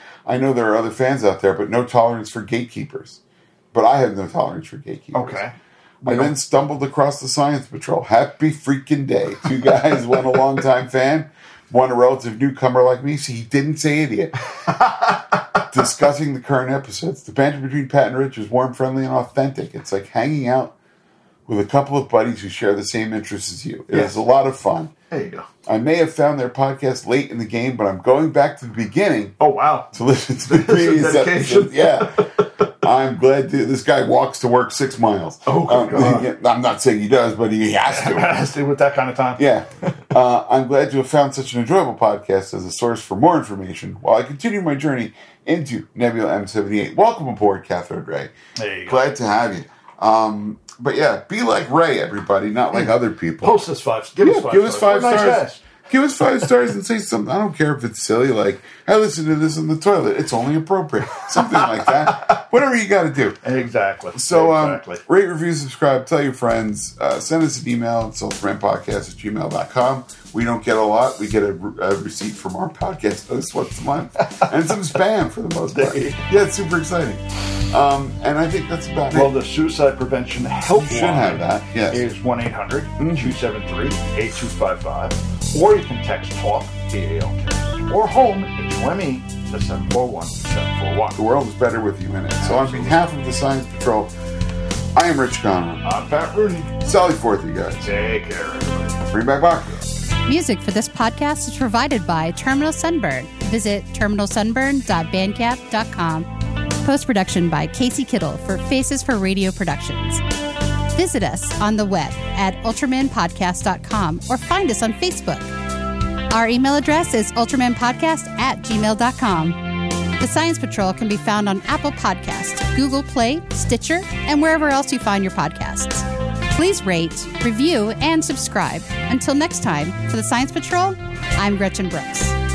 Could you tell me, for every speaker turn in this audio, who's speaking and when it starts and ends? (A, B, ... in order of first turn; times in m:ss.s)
0:00.2-0:03.2 A
0:03.7-0:05.4 A
0:05.1-0:06.3 B
0:06.0-0:14.4 A
0:14.6-0:15.6 B
0:15.7-0:20.7 A
0:21.5-0:24.9 A
0:23.9-0:24.2 B
0:25.1-0:25.4 B
0:25.7-0:29.4 A
0:29.4-0:32.6 B
0:29.9-0:38.4 A
0:35.4-0:36.3 B
0:37.9-0:40.0 B
0:39.4-0:48.3 A
0:48.6-0:49.0 B
0:48.8-0:53.6 A
0:52.7-0:55.6 B
0:54.2-1:03.4 A
1:01.2-1:02.4 B
1:03.4-1:05.0 B
1:04.1-1:19.4 A
1:15.7-1:16.2 B
1:19.1-1:31.2 B
1:20.8-1:22.0 A
1:23.0-1:23.4 A
1:31.1-1:34.1 A
1:32.4-1:33.0 B
1:34.9-1:35.8 A
1:35.8-1:36.8 B
1:36.8-1:37.8 A
1:37.8-1:39.1 B
1:39.1-1:39.8 A
1:40.2-1:46.3 C
1:46.8-1:50.2 C
1:50.9-1:55.5 C
1:56.3-2:12.4 C